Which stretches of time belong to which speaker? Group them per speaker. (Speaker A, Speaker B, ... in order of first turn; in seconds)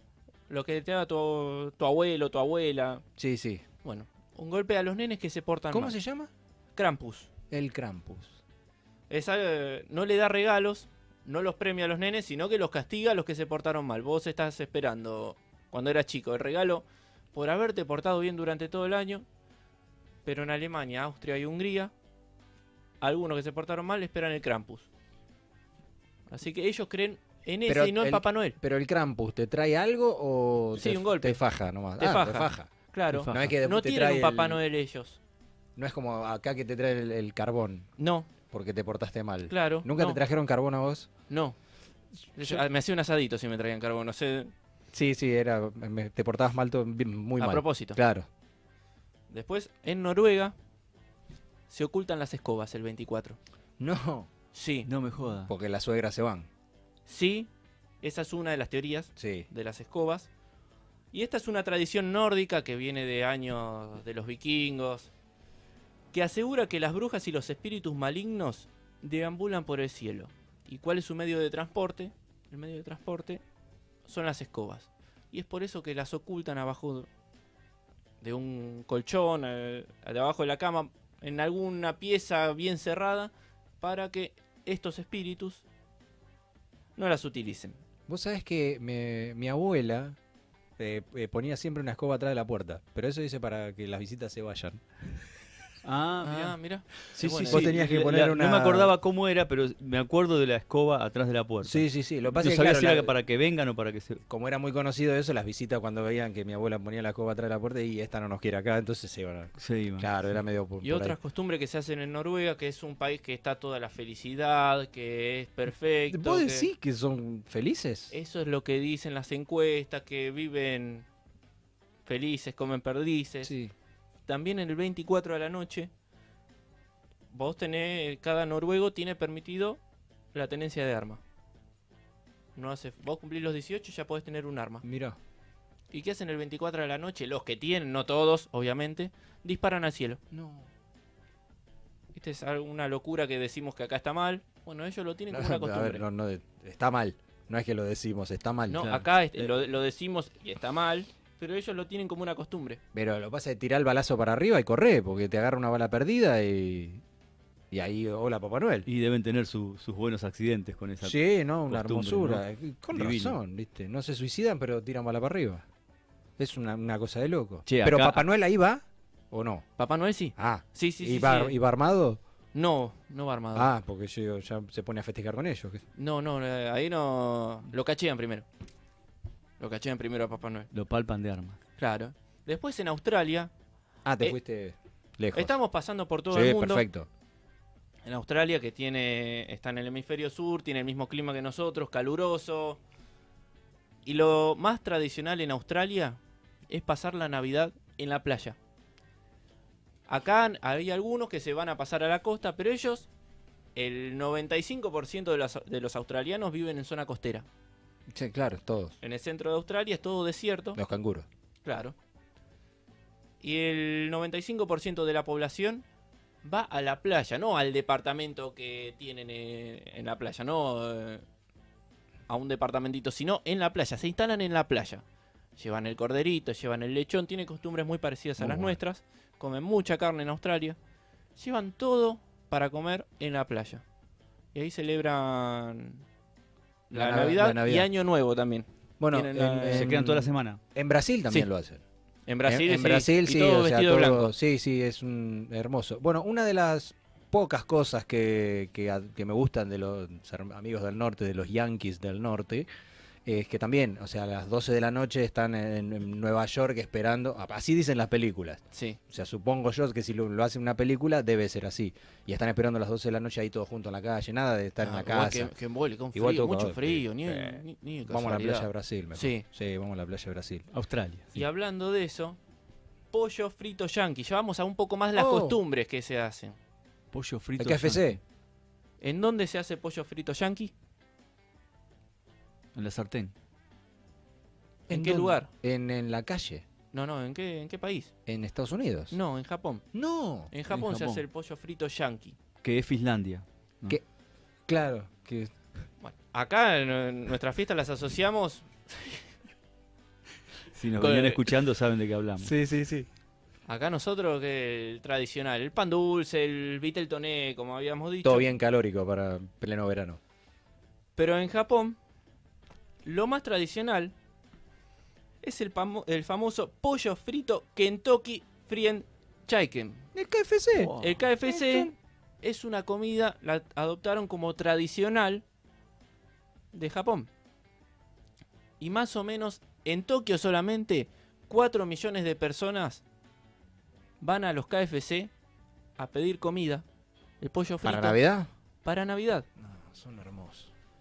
Speaker A: 0.5-3.0, 3.8-6.0, 6.8-7.4, 9.1-19.2, 20.2-21.9, 23.0-24.9, 26.3-28.6, 30.7-35.2, 38.0-38.4, 39.5-40.3, 41.3-41.6, 42.4-44.5, 47.4-48.0, 49.3-50.5, 51.7-53.4, 54.5-54.9, 57.1-57.5, 58.0-60.3, 61.1-65.1, 66.1-73.4, 74.0-77.1, 78.2-85.6, 87.0-87.8, 96.2-98.0, 110.8-116.7, 118.1-121.1, 122.0-123.5, 124.3-125.9, 127.3-129.8, 130.3-131.2, 132.6-134.8, 135.9-140.2, 142.2-146.1, 148.7-152.8, 169.8-171.6, 172.5-173.7, 176.0-178.4, 179.6-180.7, 181.8-183.5, 185.3-186.9, 188.1-192.8, 194.1-196.2, 196.7-198.6, 200.1-203.1, 203.8-207.4, 209.0-210.8, 211.7-211.9, 213.4-215.8, 216.4-221.2, 222.3-225.0, 225.6-230.8, 231.4-233.8, 234.6-236.0, 236.9-239.9, 242.3-244.4, 258.7-259.0, 264.8-269.5, 271.3-272.4, 273.1-276.5, 279.0-280.7, 284.9-285.5, 286.9-288.1, 289.1-289.9, 290.5-292.4, 296.0-299.2, 301.0-301.4, 303.7-308.5, 311.2-311.9, 313.0-314.1, 315.4-320.1, 320.9-325.4, 326.7-327.3, 328.8-333.0, 334.2-335.3, 336.0-336.8, 337.4-338.2, 338.8-339.4
Speaker B: 3.2-3.7, 5.7-6.3, 7.4-8.4, 27.7-34.6, 35.8-41.1, 44.9-48.3, 53.8-54.3, 55.5-56.5, 59.2-59.5, 88.1-90.2, 90.8-94.8, 97.1-98.9, 101.6-103.2, 104.3-111.2, 116.1-118.1, 123.4-123.7, 134.9-135.2, 140.3-140.7, 145.3-149.6, 152.9-157.0, 157.7-158.9, 161.0-165.6, 166.4-169.7, 170.4-172.2, 173.5-175.8, 184.1-185.6, 186.3-187.1, 208.1-208.9, 210.8-211.3, 228.4-228.8, 236.9-237.9, 239.0-241.8, 242.5-252.7, 253.3-265.5, 266.1-270.7, 275.2-275.6, 277.6-278.2, 284.9-286.7, 288.3-289.2, 289.9-290.5, 294.7-295.5, 302.4-303.1, 308.2-310.2, 320.1-321.9, 337.8-338.5, 339.6-340.7
Speaker C: 33.1-33.6, 54.9-55.5, 95.8-96.6, 97.5-104.2, 109.6-110.1, 148.7-149.1, 158.9-163.4, 167.7-168.2, 180.7-181.6, 239.7-240.6, 270.7-271.4, 277.1-278.2, 282.8-283.3, 290.7-291.2, 292.6-294.0, 300.7-302.5, 320.8-321.2